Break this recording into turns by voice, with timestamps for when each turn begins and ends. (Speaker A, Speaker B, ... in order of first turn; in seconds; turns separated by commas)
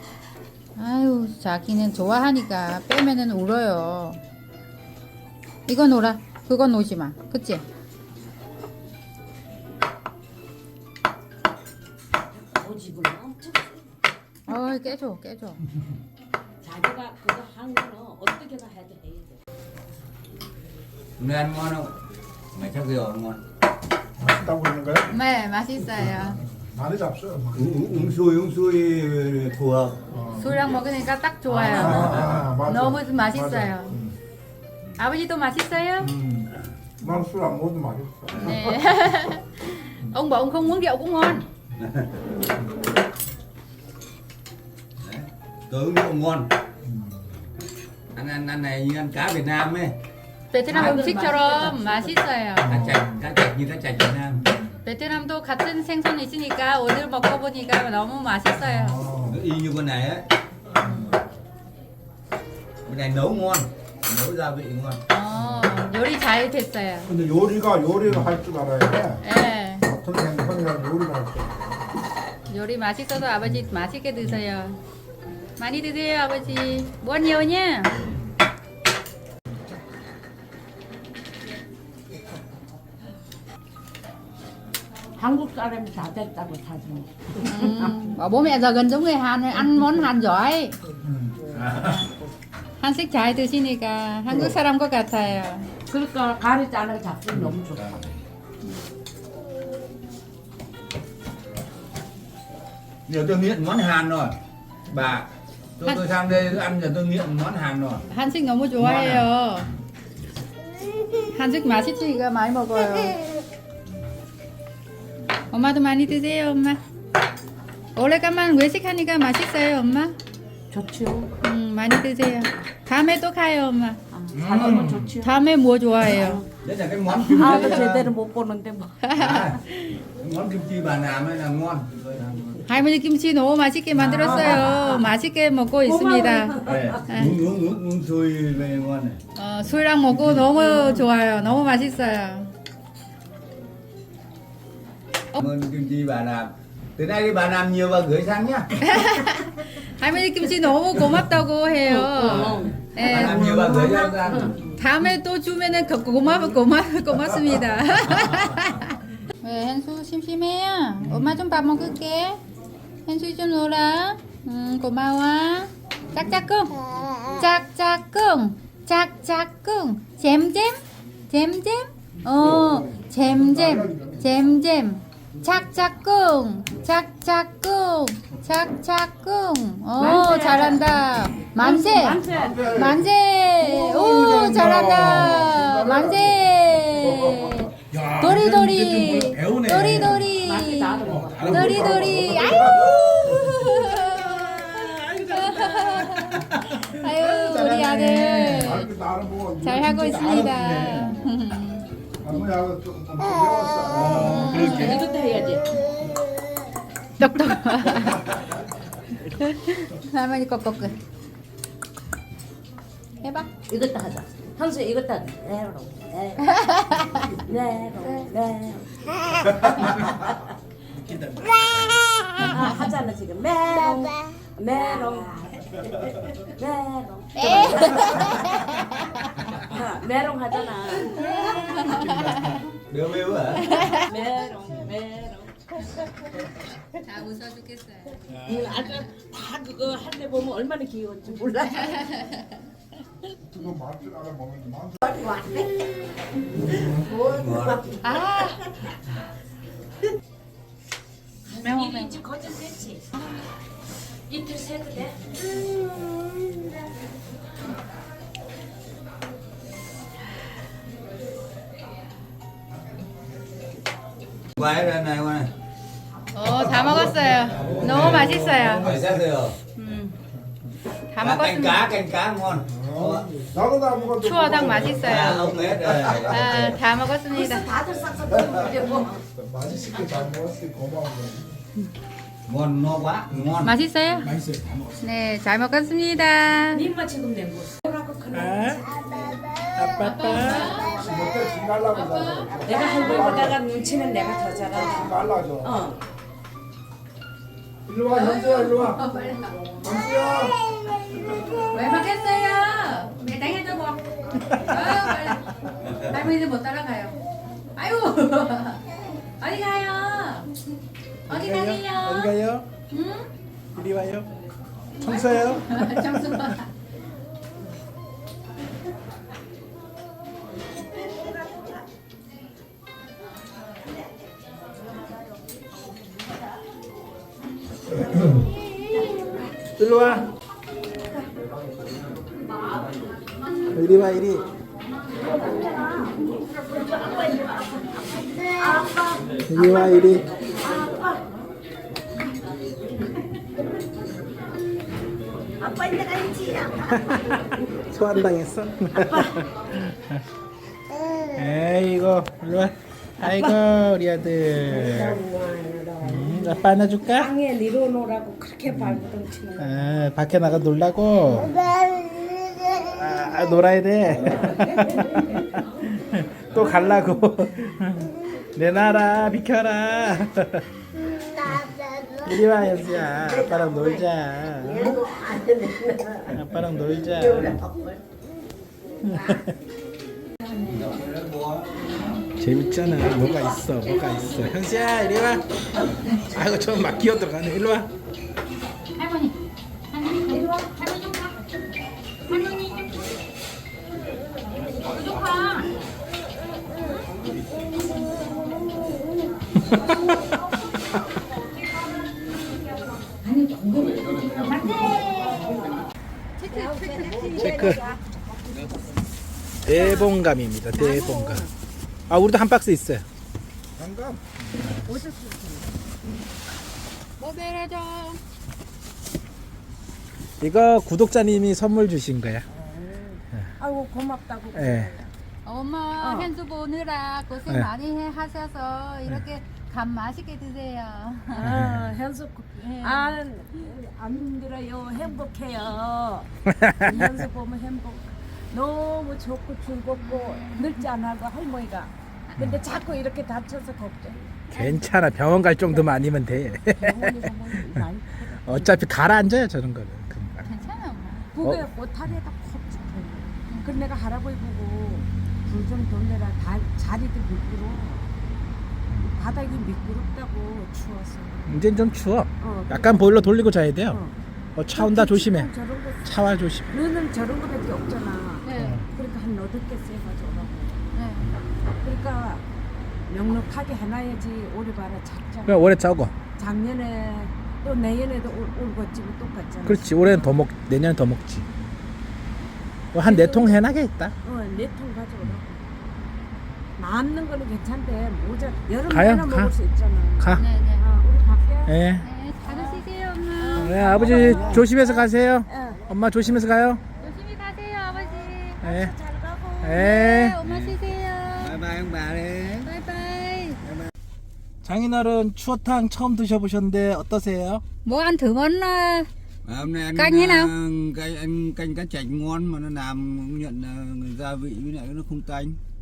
Speaker A: 0.8-4.2, Speaker A: 5.7-7.6, Speaker B: 12.3-13.8, Speaker A: 14.5-15.6, Speaker B: 16.6-19.4, Speaker C: 21.2-21.9, Speaker C: 22.5-23.4, Speaker D: 24.2-25.1, Speaker A: 25.1-26.4, Speaker D: 26.0-27.9, Speaker C: 27.6-30.1, Speaker D: 30.1-30.6, Speaker A: 30.4-34.0, Speaker D: 31.5-34.1, Speaker C: 31.6-32.5, Speaker A: 35.0-36.1, Speaker D: 36.0-36.5, Speaker D: 37.0-38.8, Speaker A: 38.4-41.5, Speaker C: 41.8-42.1, Speaker C: 45.0-46.5, Speaker C: 48.1-50.0, Speaker A: 50.5-52.8, Speaker B: 50.7-52.2, Speaker C: 50.7-51.1, Speaker C: 52.6-54.5, Speaker D: 52.7-53.0, Speaker E: 52.7-53.0, Speaker A: 54.9-59.0, Speaker D: 58.6-59.4, Speaker C: 59.3-60.3, Speaker A: 60.9-61.1, Speaker C: 62.9-65.0, Speaker A: 65.1-67.1, Speaker D: 65.4-65.8, Speaker D: 67.1-69.2, Speaker A: 69.2-69.9, Speaker D: 69.8-71.8, Speaker A: 72.5-74.8, Speaker A: 75.6-78.0, Speaker B: 85.2-88.0, Speaker A: 87.4-90.8, Speaker C: 91.0-92.0, Speaker A: 91.7-92.1, Speaker A: 92.8-95.7, Speaker B: 95.9-97.9, Speaker C: 97.8-98.1, Speaker C: 103.1-104.4, Speaker C: 104.9-108.1, Speaker A: 105.8-106.1, Speaker A: 108.1-109.7, Speaker C: 108.8-109.3, Speaker A: 111.3-113.3, Speaker A: 115.5-116.8, Speaker A: 118.0-120.2, Speaker B: 120.7-121.3, Speaker A: 121.4-124.0, Speaker B: 124.1-125.4, Speaker E: 124.3-125.2, Speaker A: 125.2-126.4, Speaker B: 126.0-126.5, Speaker C: 126.6-128.1, Speaker B: 127.2-129.0, Speaker A: 127.3-128.0, Speaker A: 129.0-130.0, Speaker C: 129.2-129.6, Speaker C: 130.2-132.7, Speaker A: 132.7-137.4, Speaker B: 134.0-135.1, Speaker C: 134.1-134.5, Speaker B: 135.8-137.2, Speaker C: 136.7-139.2, Speaker A: 139.4-142.5, Speaker B: 140.5-141.1, Speaker C: 145.4-148.8, Speaker A: 148.8-153.9, Speaker B: 151.8-154.8, Speaker C: 152.2-154.7, Speaker A: 154.8-162.4, Speaker A: 163.1-198.9, Speaker D: 172.3-174.3, Speaker B: 180.0-182.8, Speaker D: 182.3-187.7, Speaker E: 187.9-190.3, Speaker B: 190.3-191.9, Speaker E: 191.0-198.9, Speaker D: 191.3-193.6, Speaker D: 198.5-201.1, Speaker A: 199.6-201.9, Speaker E: 199.9-201.2, Speaker D: 202.2-204.8, Speaker E: 203.9-205.1, Speaker A: 204.1-205.2, Speaker B: 204.5-205.9, Speaker A: 207.2-208.4, Speaker A: 209.3-211.0, Speaker A: 213.2-213.5, Speaker B: 213.7-216.5, Speaker A: 216.4-217.3, Speaker B: 217.3-220.4, Speaker A: 218.0-218.3, Speaker E: 220.9-222.7, Speaker B: 222.5-228.8, Speaker A: 227.4-229.5, Speaker B: 229.5-231.3, Speaker A: 231.1-232.6, Speaker E: 231.1-232.7, Speaker C: 232.9-233.8, Speaker A: 233.7-234.0, Speaker B: 233.9-236.8, Speaker A: 237.1-238.2, Speaker E: 238.3-239.1, Speaker B: 238.3-242.2, Speaker A: 241.6-242.6, Speaker D: 243.5-245.1, Speaker B: 245.1-245.9, Speaker B: 246.6-248.0, Speaker C: 246.7-247.9, Speaker A: 248.0-248.6, Speaker B: 251.5-253.2, Speaker A: 251.6-252.2, Speaker B: 254.3-255.3, Speaker B: 255.9-256.4, Speaker C: 264.6-265.5, Speaker A: 266.3-268.9, Speaker D: 266.6-269.3, Speaker C: 267.5-269.6, Speaker E: 267.6-268.3, Speaker A: 269.8-270.2, Speaker D: 270.4-270.7, Speaker A: 271.1-271.9, Speaker C: 271.2-273.3, Speaker D: 272.7-276.8, Speaker A: 274.2-275.5, Speaker C: 274.9-276.8, Speaker A: 276.3-277.7, Speaker B: 277.3-279.2, Speaker D: 279.3-281.5, Speaker B: 279.9-280.3, Speaker C: 282.5-283.7, Speaker E: 283.3-283.7, Speaker A: 283.6-284.3, Speaker E: 284.2-285.0, Speaker A: 285.0-286.8, Speaker B: 286.7-289.4, Speaker E: 288.3-288.9, Speaker E: 289.8-290.7, Speaker A: 290.0-291.1, Speaker D: 290.9-293.6, Speaker A: 291.9-293.5, Speaker B: 292.6-296.0, Speaker D: 294.9-295.8, Speaker D: 297.9-299.1, Speaker A: 298.1-300.3, Speaker D: 299.8-301.7, Speaker A: 301.7-304.0, Speaker E: 304.4-305.4, Speaker A: 304.6-305.5, Speaker A: 306.0-307.2, Speaker A: 307.8-308.9, Speaker A: 309.4-310.5, Speaker E: 311.3-312.7, Speaker A: 311.3-312.3, Speaker A: 312.9-313.3, Speaker E: 313.7-314.3, Speaker E: 315.0-316.6, Speaker A: 315.0-316.7, Speaker E: 329.8-330.3, Speaker E: 333.7-334.5, Speaker B: 335.2-341.2, Speaker E: 339.5-340.3, Speaker B: 345.6-347.1, Speaker E: 346.9-350.2, Speaker B: 348.9-349.4, Speaker E: 351.3-355.2, Speaker B: 353.2-353.6, Speaker B: 354.7-359.9, Speaker E: 356.0-357.3, Speaker E: 358.7-361.6, Speaker E: 362.7-370.7, Speaker C: 364.2-364.5, Speaker B: 364.4-365.3, Speaker E: 372.2-375.1, Speaker B: 374.8-376.3, Speaker E: 376.2-377.6, Speaker B: 377.3-378.0, Speaker E: 379.1-379.5, Speaker B: 380.5-380.8, Speaker C: 380.6-382.2, Speaker E: 382.4-385.4, Speaker E: 386.2-387.9, Speaker A: 389.0-389.4, Speaker A: 389.9-391.3, Speaker B: 390.4-390.8, Speaker A: 392.3-392.9, Speaker A: 394.8-395.7, Speaker B: 397.0-398.9, Speaker B: 403.3-405.7, Speaker A: 403.7-405.4, Speaker A: 406.4-407.7, Speaker B: 406.5-409.0, Speaker D: 407.0-407.5, Speaker E: 407.2-407.8, Speaker E: 409.6-411.5, Speaker A: 409.7-410.1, Speaker B: 410.8-411.5, Speaker E: 412.1-413.1, Speaker D: 413.8-414.2, Speaker E: 414.5-414.9, Speaker B: 414.8-415.8, Speaker A: 417.2-418.2, Speaker E: 420.4-422.4, Speaker B: 422.5-425.1, Speaker E: 424.5-424.9, Speaker A: 425.5-431.6, Speaker B: 426.0-426.3, Speaker B: 431.3-444.6, Speaker E: 431.4-431.9, Speaker A: 432.6-433.2, Speaker E: 436.5-437.2, Speaker A: 440.0-440.8, Speaker E: 442.4-442.6, Speaker E: 444.5-447.8, Speaker B: 446.7-448.8, Speaker E: 448.4-450.5, Speaker A: 450.4-451.3, Speaker B: 451.3-458.1, Speaker E: 451.4-451.7, Speaker A: 453.5-453.8, Speaker B: 459.1-461.6, Speaker E: 461.5-464.0, Speaker B: 462.4-464.1, Speaker E: 464.6-465.5, Speaker B: 464.7-466.2, Speaker E: 466.0-466.7, Speaker B: 466.7-470.8, Speaker A: 468.4-468.8, Speaker E: 468.6-468.8, Speaker A: 470.9-471.3, Speaker B: 471.8-472.4, Speaker B: 473.1-475.7, Speaker E: 475.5-476.1, Speaker B: 476.4-480.1, Speaker E: 479.6-481.5, Speaker E: 482.9-484.1, Speaker B: 483.0-483.6, Speaker B: 484.2-486.0, Speaker B: 486.8-491.8, Speaker E: 488.9-489.5, Speaker E: 490.2-490.4, Speaker A: 490.4-490.9, Speaker E: 491.7-492.1, Speaker A: 492.0-494.4, Speaker B: 492.4-492.9, Speaker B: 493.4-495.9, Speaker E: 493.6-496.8, Speaker C: 494.2-494.6, Speaker A: 497.0-498.6, Speaker B: 497.9-499.9, Speaker E: 498.6-498.9, Speaker E: 499.6-500.8, Speaker A: 499.7-501.6, Speaker C: 501.3-502.7, Speaker A: 502.6-503.6, Speaker E: 504.6-507.6, Speaker A: 507.9-509.1, Speaker C: 509.4-515.6, Speaker A: 509.9-510.5